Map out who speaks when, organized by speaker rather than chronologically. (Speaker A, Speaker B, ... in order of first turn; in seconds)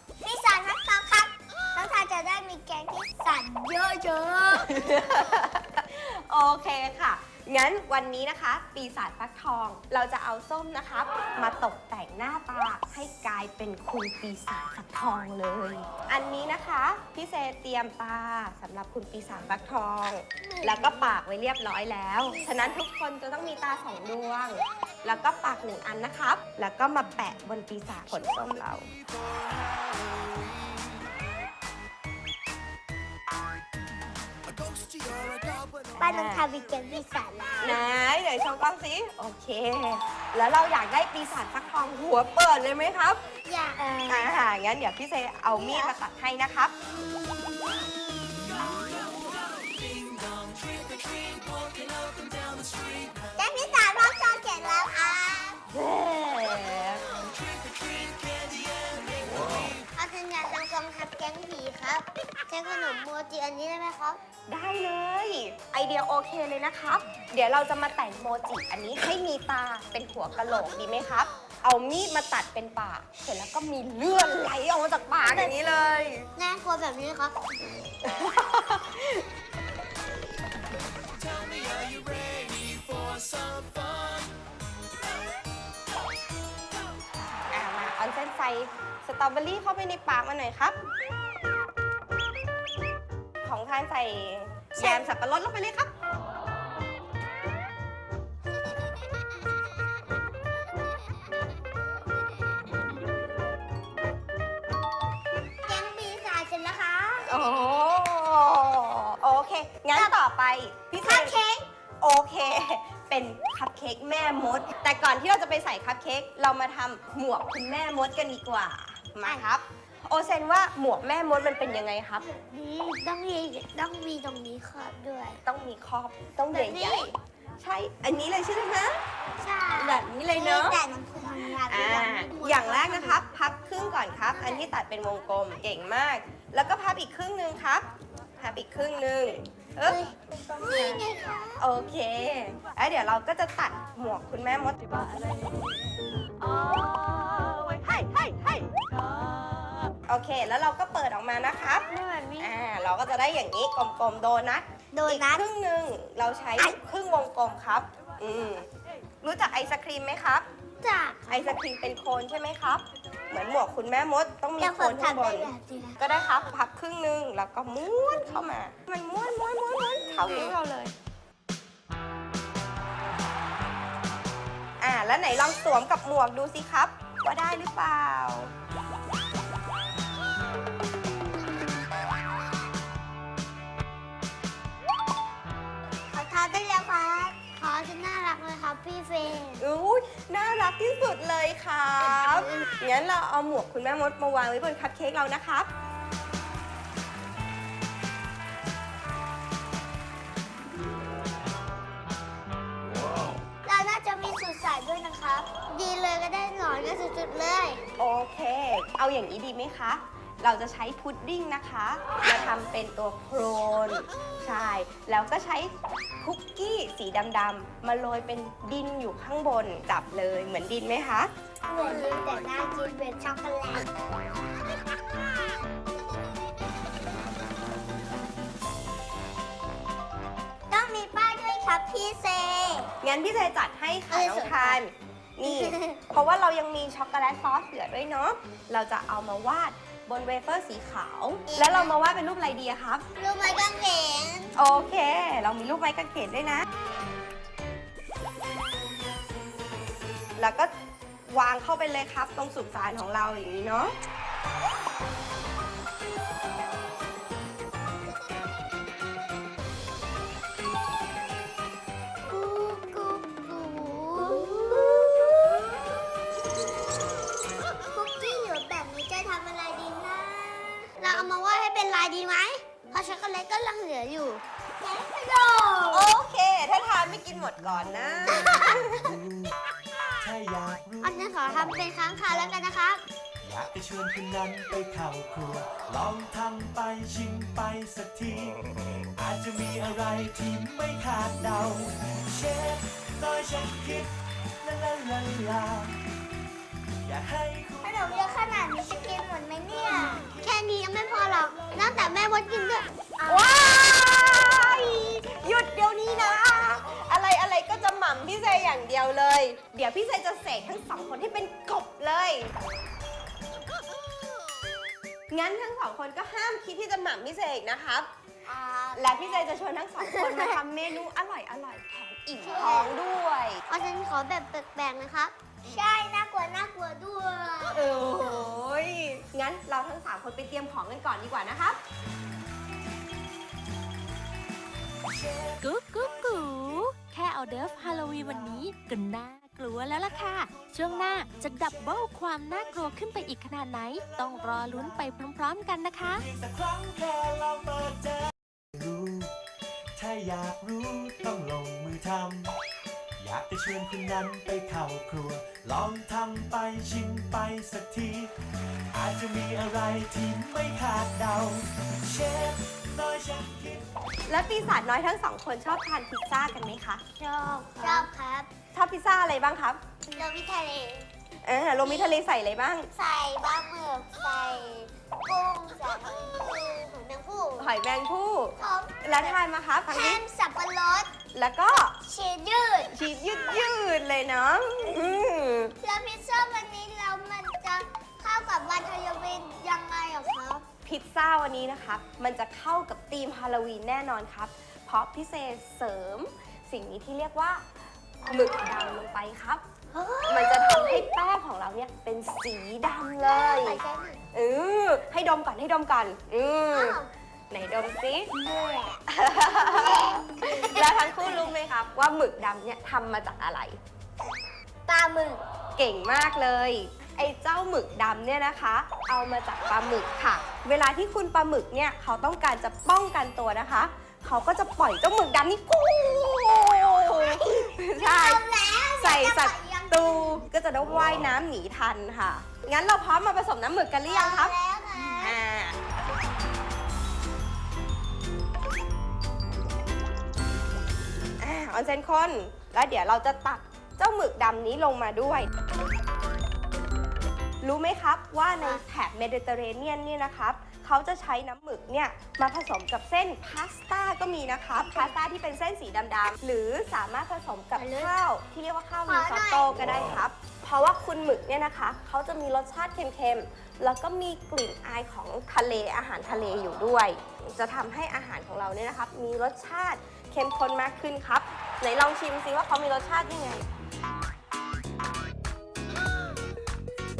Speaker A: 0.2-4.7, 20.4-21.2, 22.3-22.8, 36.0-37.8, 43.4-44.3, 45.5-45.9, 53.4-55.6, 59.9-64.2, 75.2-75.5, 76.3-77.3, 94.8-95.0, 105.7-107.4, 109.9-110.2, 111.0-111.7, 122.2-125.4, 126.5-127.1, 129.4-133.2, 139.8-141.6, 151.9-152.5, 154.9-155.4, 160.8-161.4, 164.6-166.0, 170.2-170.6, 186.1-189.6, 203.6-207.8, 221.7-223.9, 230.7-232.9, 234.1-234.8, 235.4-236.0, 241.5-241.9, 243.2-244.5, 262.3-265.6, 267.9-276.1, 278.3-279.0, 281.0-283.0, 297.8-305.3, 318.4-320.4, 322.4-323.0, 323.7-328.4, 367.2-368.5, 370.1-371.1, 371.8-372.2, 372.9-377.7, 378.6-379.4, 379.9-381.1, 382.1-383.6, 384.8-385.2, 385.8-390.6, 399.9-401.1, 403.2-404.2, 406.7-407.1, 408.3-409.0, 409.5-411.5, 414.9-415.4, 427.1-430.4, 434.1-435.4, 448.6-448.8, 454.8-455.1, 457.8-458.1, 459.1-459.8
Speaker B: 4.7-28.9, 36.0-36.5, 37.6-43.2, 44.0-46.7, 55.7-57.2, 64.5-76.3, 78.0-79.2, 87.5-90.8, 93.4-95.9, 107.2-111.4, 112.0-122.3, 125.4-129.0, 129.8-130.8, 131.5-140.0, 140.6-141.0, 141.6-145.0, 150.1-158.7, 159.2-160.4, 161.3-170.9, 174.8-178.5, 189.6-195.7, 208.0-221.3, 233.0-243.0, 244.5-246.7, 250.4-250.7, 251.3-253.9, 275.9-279.0, 303.3-312.5, 315.3-318.1, 318.9-323.6, 327.7-331.8, 364.3-367.0, 368.7-369.8, 371.4-372.9, 377.6-380.2, 381.3-382.0, 382.9-385.7, 390.8-397.6, 398.2-399.6, 400.3-403.8, 404.3-408.3, 409.1-413.8, 415.8-434.6, 435.2-435.8, 441.4-445.5, 447.6-473.6
Speaker C: 34.6-35.7, 49.5-53.2, 57.5-59.6, 81.3-84.2, 277.9-279.6, 280.2-282.0, 283.4-288.6, 289.1-296.0, 297.0-299.3, 301.5-302.1, 335.0-336.8, 337.7-338.7, 339.9-343.3, 343.9-345.2, 346.1-349.3, 350.0-352.5, 353.2-358.3, 358.9-363.9
Speaker D: 335.6-346.2